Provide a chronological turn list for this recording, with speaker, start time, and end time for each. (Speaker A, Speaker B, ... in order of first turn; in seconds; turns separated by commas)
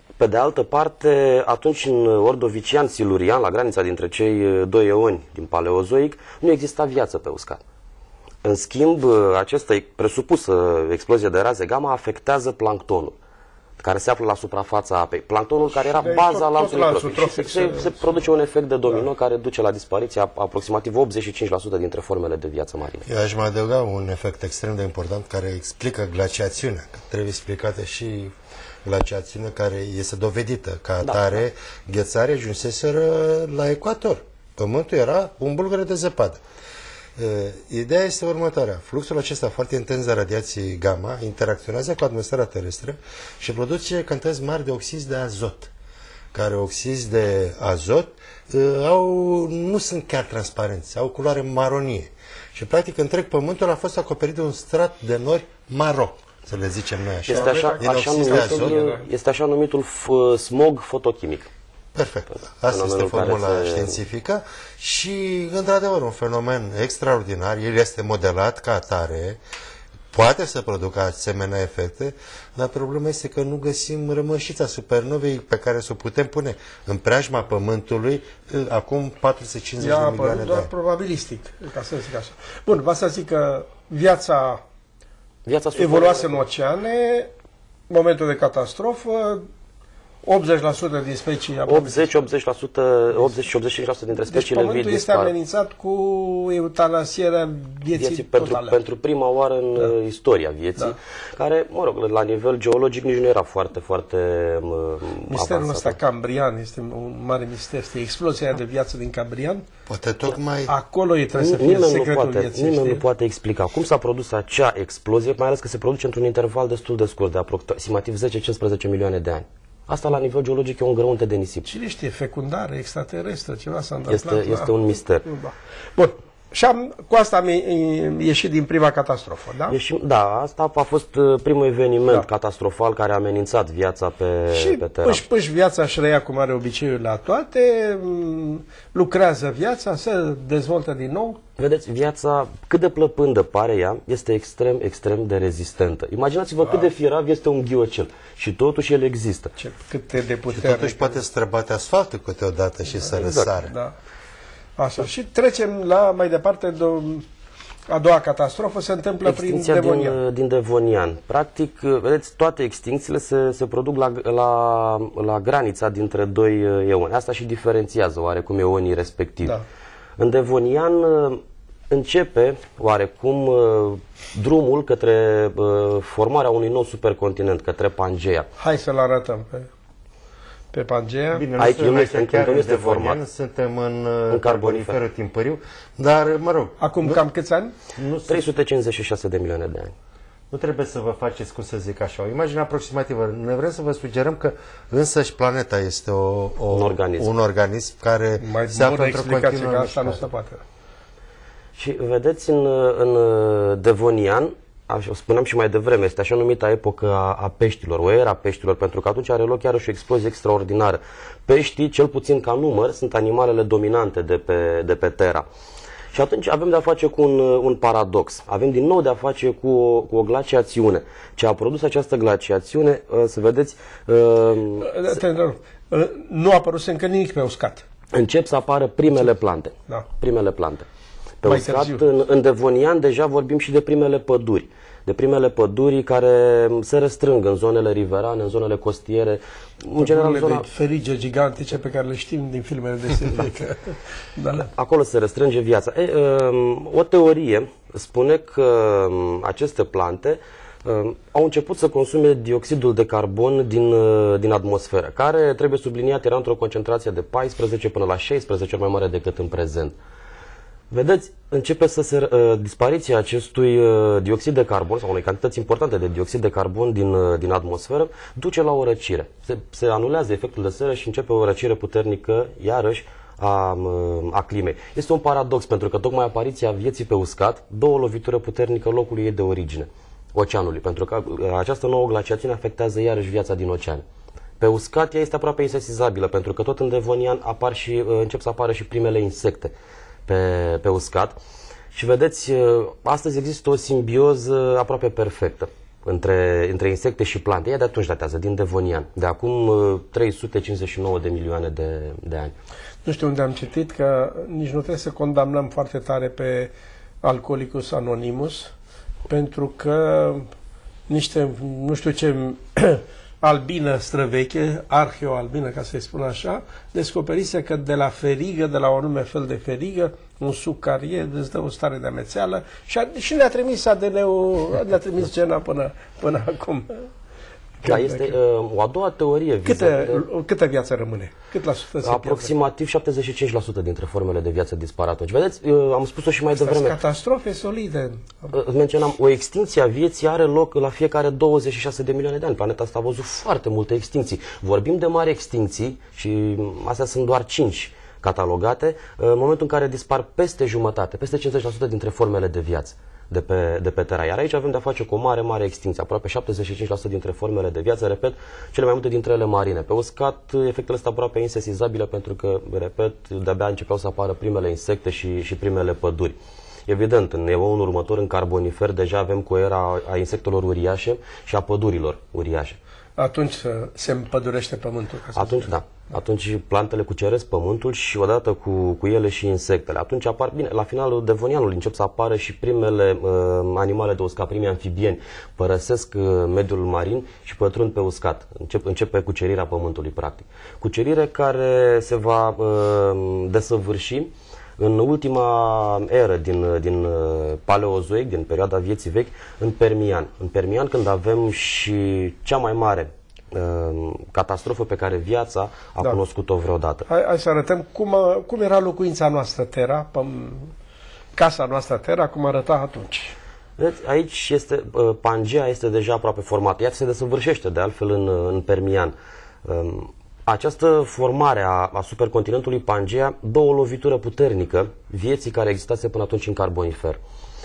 Speaker A: 0.2-7.6, Speaker A: 8.4-13.1, Speaker A: 13.8-23.1, Speaker B: 15.8-18.3, Speaker C: 23.1-28.3, Speaker C: 28.8-36.4, Speaker A: 31.0-31.4, Speaker C: 37.2-45.7, Speaker C: 46.3-58.8, Speaker A: 57.3-61.5, Speaker B: 57.3-59.0, Speaker C: 61.9-69.4, Speaker A: 62.7-64.0, Speaker C: 70.1-80.7, Speaker B: 79.8-84.6, Speaker A: 85.5-86.4, Speaker B: 85.8-87.3, Speaker B: 87.9-89.5, Speaker B: 90.2-92.2, Speaker A: 91.7-95.3, Speaker B: 94.3-98.8, Speaker A: 97.9-106.0, Speaker B: 105.3-109.6, Speaker C: 109.9-110.7, Speaker B: 110.7-113.0, Speaker A: 111.4-121.7, Speaker B: 121.7-129.8, Speaker A: 124.1-125.2, Speaker A: 129.7-135.2, Speaker B: 134.5-141.4, Speaker A: 141.6-149.5, Speaker B: 149.6-151.2, Speaker C: 150.5-153.7, Speaker A: 153.2-153.5, Speaker B: 153.6-153.9, Speaker B: 154.8-157.2, Speaker B: 157.9-160.2, Speaker A: 159.2-169.5, Speaker A: 170.2-178.5, Speaker B: 178.6-179.7, Speaker B: 180.7-181.5, Speaker C: 181.3-187.2, Speaker A: 181.6-183.2, Speaker A: 184.3-185.0, Speaker B: 186.8-187.7, Speaker C: 187.9-188.4, Speaker A: 188.3-189.9, Speaker C: 190.5-200.2, Speaker A: 196.7-197.3, Speaker B: 198.4-200.6, Speaker A: 201.8-215.4, Speaker A: 216.1-225.1, Speaker B: 224.8-227.8, Speaker A: 228.1-230.8, Speaker A: 231.4-240.7, Speaker B: 231.4-232.0, Speaker B: 240.0-244.7, Speaker A: 244.6-259.9, Speaker A: 260.9-284.0, Speaker A: 284.6-289.7, Speaker A: 290.3-291.4, Speaker A: 291.9-302.5, Speaker B: 303.0-306.7, Speaker B: 307.2-308.7, Speaker B: 309.3-310.5, Speaker B: 311.1-326.9, Speaker B: 327.8-328.4, Speaker A: 327.8-330.2, Speaker B: 329.6-332.5, Speaker A: 332.0-337.0, Speaker B: 336.6-338.5, Speaker A: 338.5-366.4, Speaker A: 366.9-372.8, Speaker B: 373.2-375.7, Speaker A: 375.4-407.1, Speaker B: 407.1-410.7, Speaker B: 411.4-413.3, Speaker A: 413.8-427.2